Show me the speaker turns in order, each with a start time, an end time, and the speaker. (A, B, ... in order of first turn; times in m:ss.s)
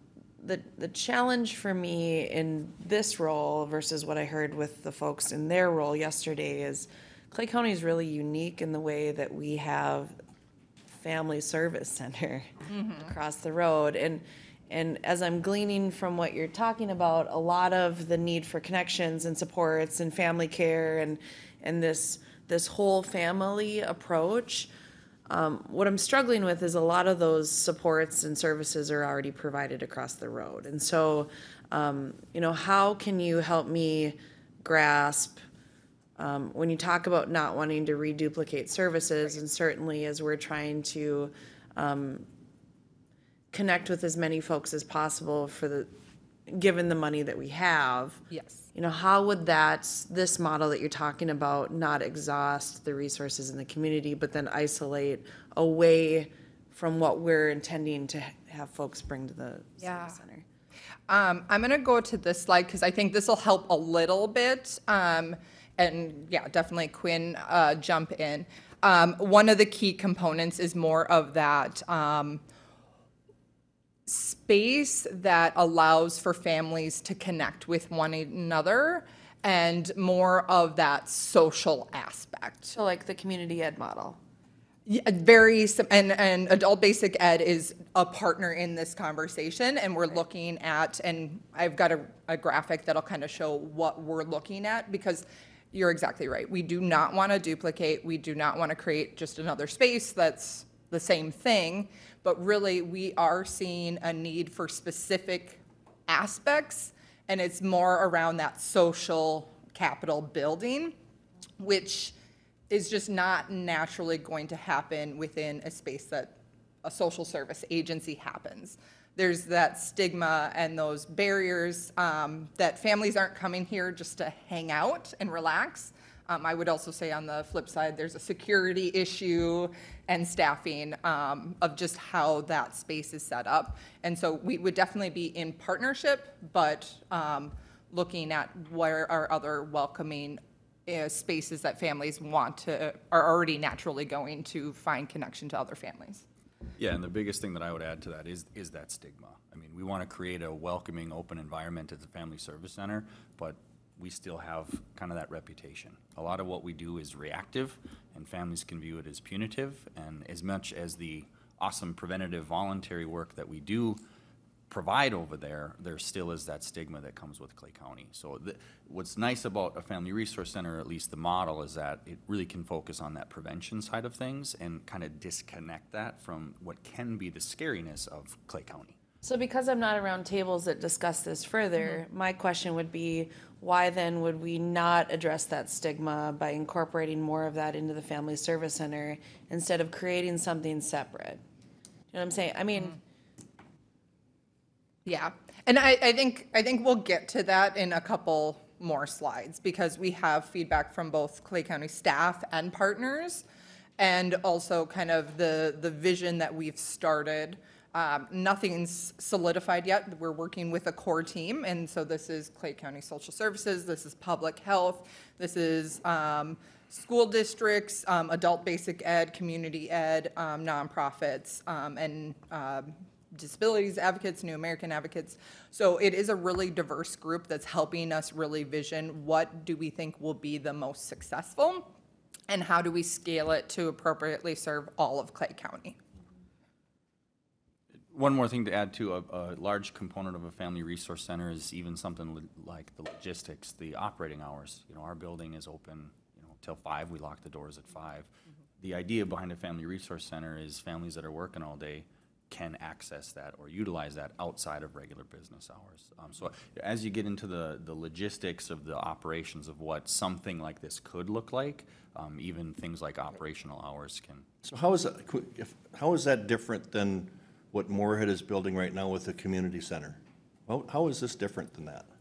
0:00.4-0:10.2 A
0:10.9-0:24.7 A
0:12.7-0:13.1 B
0:25.3-0:35.4 A
0:36.2-0:42.3 A
0:43.5-0:45.9 A
0:46.5-0:48.2 A
0:48.3-0:48.6 B
0:48.7-1:00.4 A
0:59.8-1:00.2 B
1:01.1-1:12.4 B
1:14.1-1:22.7 B
1:22.7-1:24.2 A
1:24.8-1:50.9 B
1:51.6-1:52.1 B
1:52.7-2:26.2 B
2:26.8-2:44.0 C
2:44.7-2:59.0 C
2:59.2-3:11.4 A
3:12.1-3:13.0 A
3:15.0-3:23.4 B
3:24.0-3:51.9 B
3:52.5-3:56.0 B
3:58.1-4:24.4 C
4:24.6-4:32.1 D